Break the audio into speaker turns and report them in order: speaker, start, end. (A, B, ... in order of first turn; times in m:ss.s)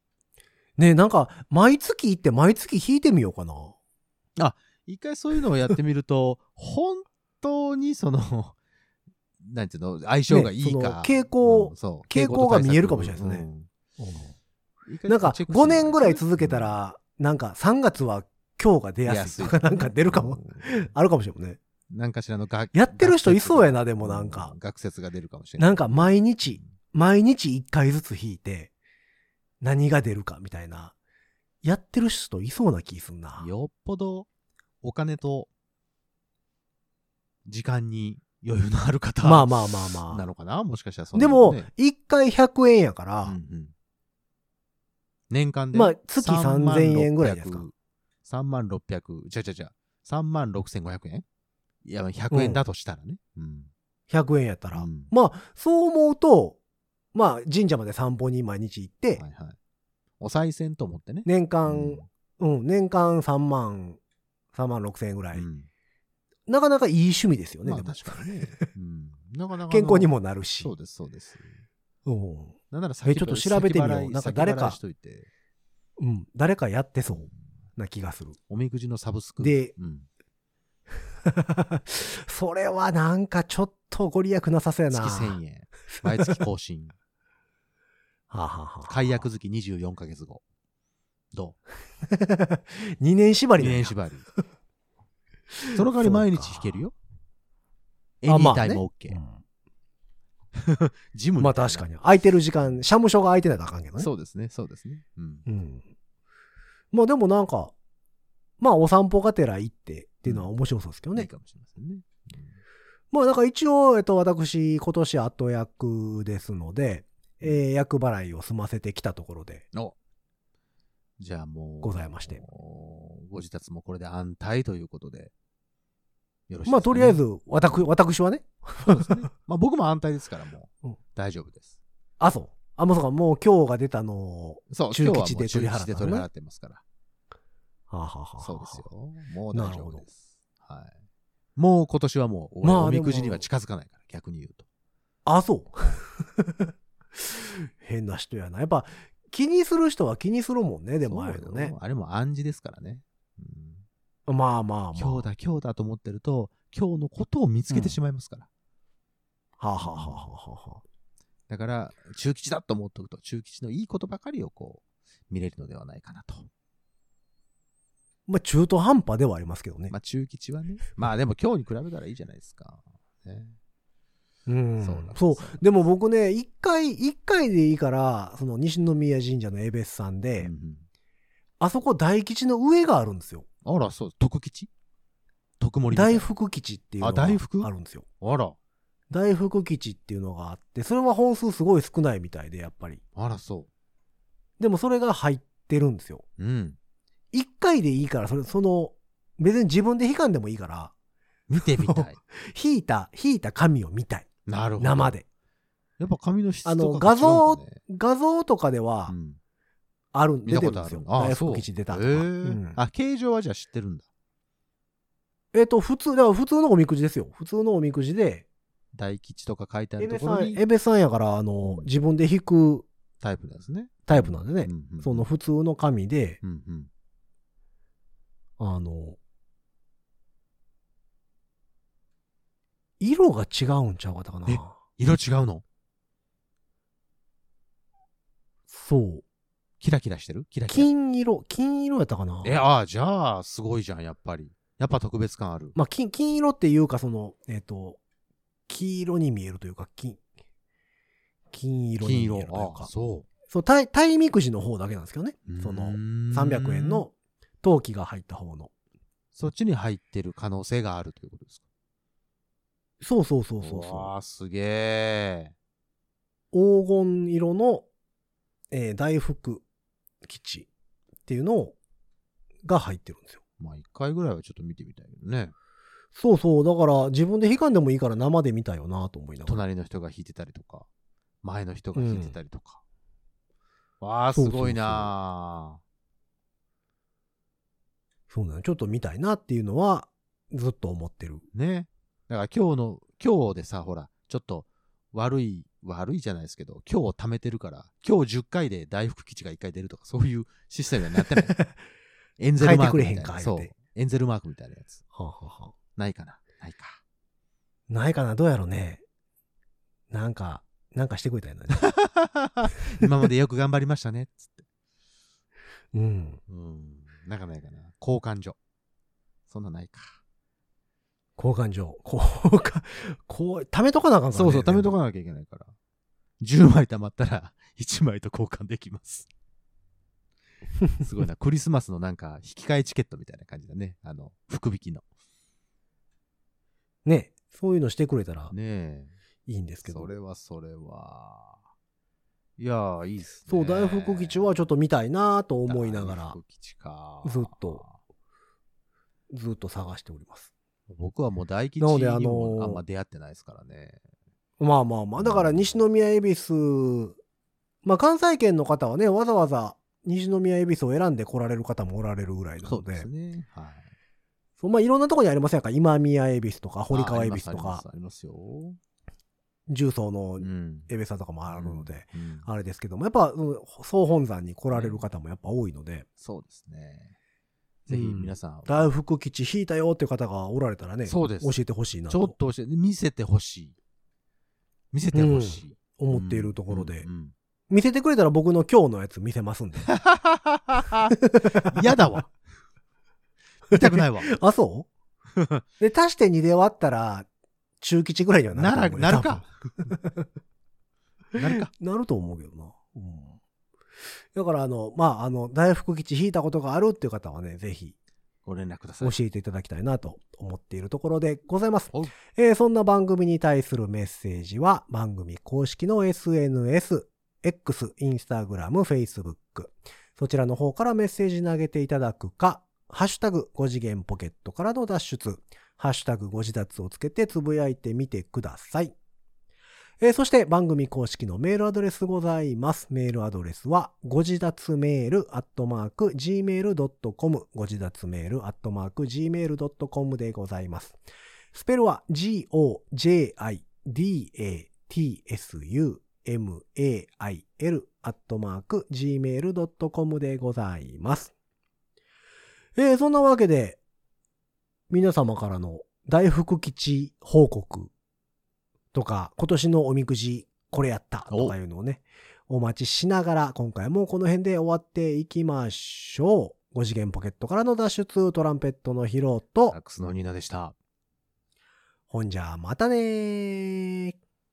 0:00.8-0:03.8 A
0:04.4-0:08.6 B
0:09.4-0:13.7 B
0:10.3-0:13.4 A
0:14.0-0:14.3 A
0:14.8-0:16.7 B
0:15.1-0:21.6 A
0:19.0-0:20.7 B
0:21.9-0:26.7 B
0:22.7-0:24.5 A
0:25.6-0:28.7 A
0:29.6-0:30.9 A
0:31.6-0:33.5 A
0:33.4-0:34.3 B
0:34.8-0:35.5 B
0:37.4-0:41.7 B
0:39.2-0:40.2 A
0:41.1-0:43.4 A
0:43.2-0:43.7 B
0:45.3-0:47.7 B
0:45.7-0:47.6 A
0:48.2-0:51.2 B
0:51.8-0:53.7 B
0:52.3-0:52.6 A
0:54.1-0:56.6 A
0:54.7-0:55.1 B
0:57.1-0:59.2 A
0:59.2-0:59.6 B
1:00.2-1:02.0 B
1:01.2-1:04.0 A
1:04.5-1:05.5 A
1:05.3-1:05.7 B
1:06.5-1:08.7 A
1:07.6-1:11.6 B
1:09.7-1:10.7 A
1:12.0-1:14.8 A
1:12.7-1:15.3 B
1:16.0-1:18.4 A
1:18.5-1:20.1 B
1:19.4-1:19.7 A
1:21.2-1:25.4 A
1:24.9-1:26.9 B
1:25.9-1:26.4 A
1:28.3-1:29.2 A
1:28.9-1:30.4 B
1:31.3-1:31.6 B
1:32.0-1:34.0 A
1:33.6-1:34.2 B
1:35.5-1:36.8 A
1:35.7-1:36.9 B
1:38.2-1:39.2 B
1:38.3-1:39.4 A
1:40.5-1:41.8 B
1:41.4-1:44.1 A
1:44.0-1:45.4 B
1:45.5-1:45.8 A
1:46.9-1:47.7 A
1:48.6-1:51.3 A
1:51.1-1:52.6 B
1:53.1-1:59.6 A
2:01.2-2:05.3 B
2:01.8-2:02.4 A
2:06.5-2:07.8 B
2:06.6-2:09.3 A
2:08.8-2:11.7 B
2:12.2-2:16.3 A
2:14.7-2:16.8 B
2:17.9-2:18.8 A
2:18.4-2:21.0 B
2:19.5-2:20.0 A
2:21.6-2:24.6 B
2:22.6-2:23.4 A
2:25.2-2:31.7 A
2:31.0-2:33.8 B
2:34.3-2:35.3 A
2:35.0-2:38.5 B
2:37.7-2:38.0 A
2:39.6-2:40.8 A
2:39.8-2:40.3 B
2:41.5-2:46.5 B
2:48.3-2:49.9 A
2:49.9-2:53.6 B
2:54.5-3:00.5 A
2:54.8-2:55.6 B
3:00.4-3:00.8 B
3:01.6-3:03.4 A
3:03.6-3:04.7 B
3:05.6-3:06.3 B
3:05.9-3:08.0 A
3:07.0-3:07.7 B
3:08.2-3:08.6 B
3:09.1-3:13.0 A
3:13.1-3:13.7 B
3:14.6-3:16.2 A
3:16.4-3:16.8 B
3:17.3-3:20.9 A
3:21.5-3:22.2 B
3:21.7-3:25.2 A
3:24.5-3:25.1 B
3:26.0-3:27.8 B
3:26.6-3:29.2 A
3:29.1-3:29.4 B
3:30.1-3:32.8 A
3:30.4-3:34.0 B
3:35.5-3:38.4 A
3:38.9-3:40.6 B
3:40.0-3:42.9 A
3:43.2-3:45.3 B
3:44.1-3:46.4 A
3:46.4-3:46.9 B
3:48.6-3:49.2 A
3:53.0-3:54.8 A
3:54.5-3:55.6 B
3:58.7-3:59.2 A
3:59.8-4:00.9 B
4:00.7-4:02.6 A
4:02.4-4:05.8 B
4:05.8-4:08.0 A
4:08.7-4:10.2 A
4:11.5-4:12.9 A
4:12.0-4:13.3 B
4:13.5-4:18.7 A
4:15.5-4:17.0 B
4:19.3-4:21.6 B
4:23.0-4:24.1 A
4:23.6-4:25.5 B
4:26.5-4:27.8 A
4:28.7-4:29.6 A
4:30.2-4:30.7 A
4:31.2-4:31.8 A
4:32.6-4:33.4 A
4:33.6-4:35.5 B
4:36.1-4:39.6 A
4:39.4-4:40.9 B
4:41.4-4:42.8 B
4:41.9-4:42.4 A
4:44.0-4:45.8 B
4:44.3-4:45.1 A
4:48.3-4:51.4 A
4:51.5-5:01.5 B
5:01.2-5:01.8 A
5:02.4-5:05.0 B
5:02.6-5:03.7 A
5:05.1-5:05.7 A
5:06.0-5:07.0 B
5:07.9-5:09.0 A
5:10.1-5:11.8 A
5:11.7-5:14.6 B
5:15.9-5:16.4 A
5:16.5-5:18.6 B
5:19.5-5:20.2 B
5:21.4-5:24.9 A
5:24.3-5:25.7 B
5:26.4-5:29.3 B
5:31.0-5:35.0 B
5:37.0-5:38.5 A
5:38.5-5:39.1 B
5:39.5-5:40.1 A
5:39.8-5:41.6 B
5:42.6-5:44.6 B
5:43.5-5:46.4 A
5:45.6-5:47.9 B
5:47.2-5:47.8 A
5:49.3-5:50.5 A
5:50.9-5:54.0 B
5:51.8-5:52.8 A
5:54.6-5:57.2 A
5:55.2-5:55.8 B
5:57.8-6:03.1 A
6:02.6-6:03.9 B
6:04.6-6:07.8 A
6:06.9-6:08.8 B
6:09.7-6:16.0 A
6:10.4-6:10.9 B
6:11.5-6:12.5 B
6:14.7-6:15.1 B
6:16.2-6:17.1 B
6:17.9-6:22.3 A
6:17.9-6:18.9 B
6:21.0-6:21.6 B
6:22.1-6:23.7 B
6:24.9-6:27.3 B
6:25.1-6:27.1 A
6:27.7-6:29.9 A
6:29.9-6:32.3 B
6:31.2-6:32.2 A
6:33.7-6:34.3 B
6:33.7-6:34.9 A
6:35.4-6:35.6 B
6:35.8-6:37.3 A
6:37.8-6:40.2 A
6:38.5-6:39.9 B
6:41.4-6:41.7 B
6:41.5-6:43.4 A
6:44.3-6:47.9 A
6:48.4-6:49.2 B
6:49.0-7:08.9 A
6:51.9-6:52.2 B
7:10.0-7:21.0 A
7:21.5-7:31.3 A
7:32.8-7:33.8 A
7:34.9-7:37.9 A
7:38.9-7:49.8 A
7:41.3-7:41.5 B
7:49.7-7:50.7 B
7:52.1-7:54.1 A